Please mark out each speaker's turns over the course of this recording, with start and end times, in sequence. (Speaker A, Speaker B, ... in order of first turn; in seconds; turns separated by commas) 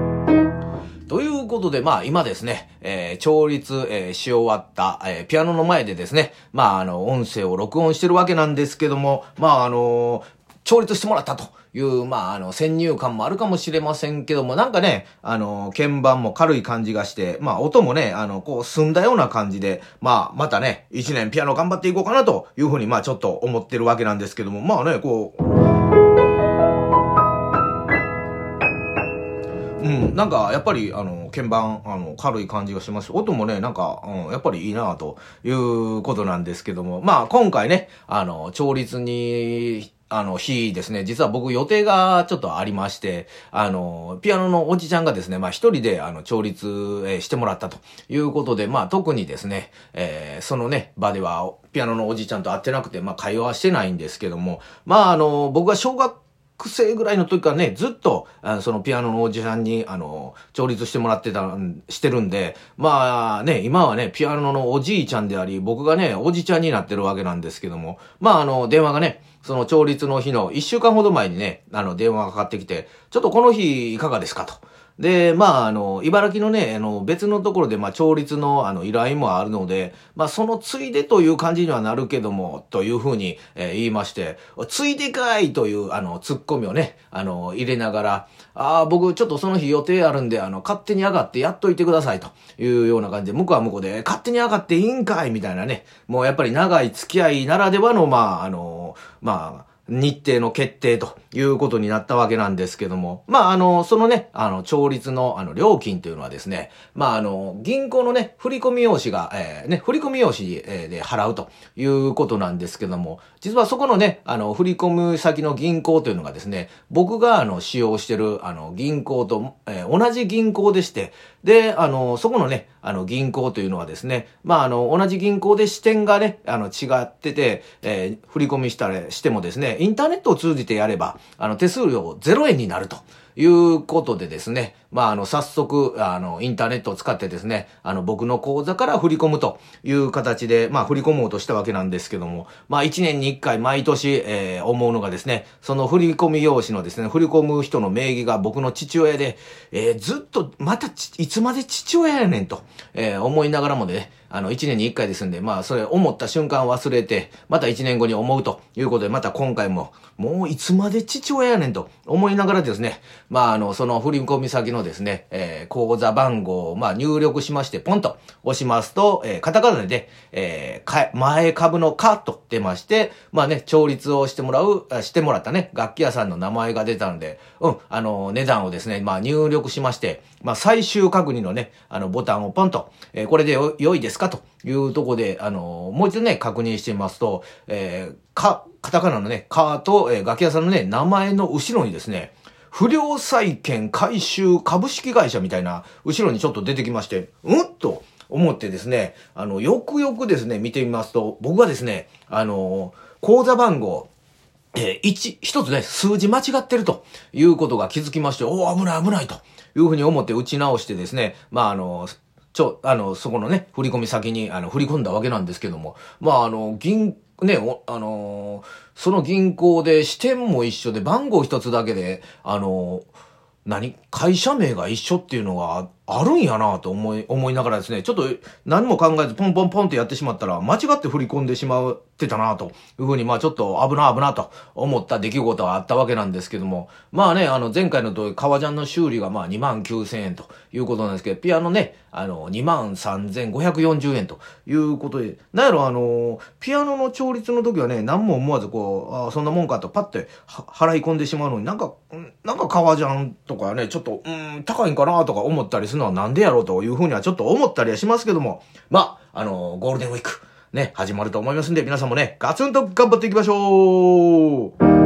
Speaker A: 1.1-25.4, Speaker A: 29.8-204.1, Speaker A: 204.7-223.1, Speaker A: 223.6-264.7